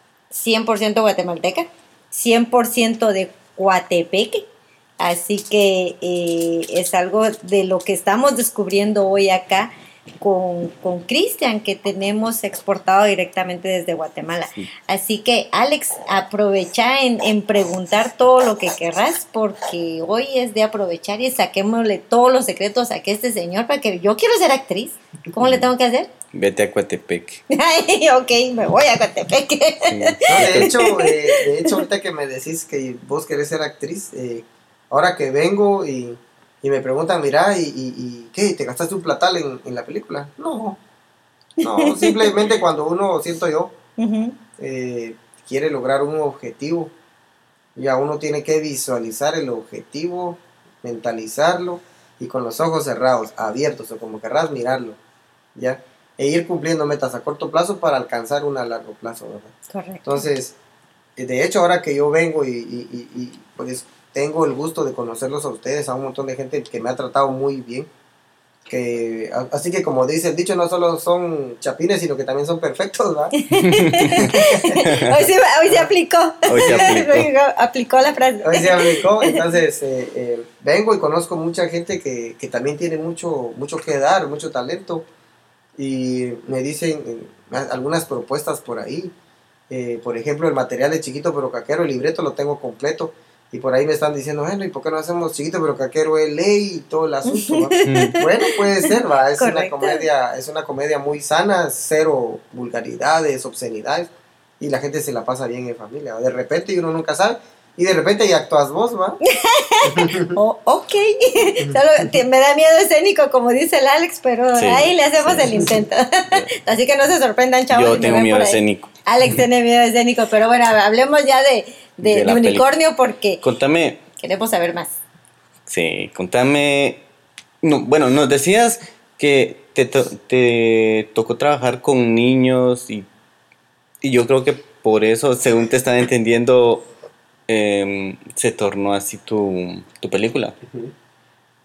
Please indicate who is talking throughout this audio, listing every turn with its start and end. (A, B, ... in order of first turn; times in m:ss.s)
0:00.3-0:04.4 A
0:05.0-0:26.1 A
0:26.3-0:27.4 B
0:27.5-0:31.7 A
0:29.9-0:30.7 B
0:30.3-0:40.8 C
0:41.6-0:42.3 A
0:41.6-0:43.7 C
0:44.0-0:44.4 A
0:44.6-0:46.9 C
0:47.8-0:55.0 C
0:55.6-0:59.5 C
0:59.7-1:00.3 A
1:00.0-1:00.6 C
1:01.2-1:07.9 C
1:08.7-1:13.3 C
1:13.4-1:19.4 A
1:13.7-1:14.1 B
1:14.0-1:14.8 C
1:16.5-1:17.3 B
1:16.5-1:17.0 C
1:18.4-1:25.0 C
1:25.8-1:29.1 C
1:29.7-1:49.2 C
1:37.3-1:40.1 A
1:37.9-1:38.2 B
1:49.2-2:03.4 A
1:49.8-1:50.4 C
1:54.6-1:56.5 B
1:57.7-1:58.9 B
2:02.0-2:02.6 B
2:03.4-2:04.0 B
2:04.2-2:05.0 A
2:05.7-2:07.0 B
2:07.6-2:13.1 B
2:14.0-2:16.9 B
2:17.5-2:20.6 B
2:20.7-2:20.9 C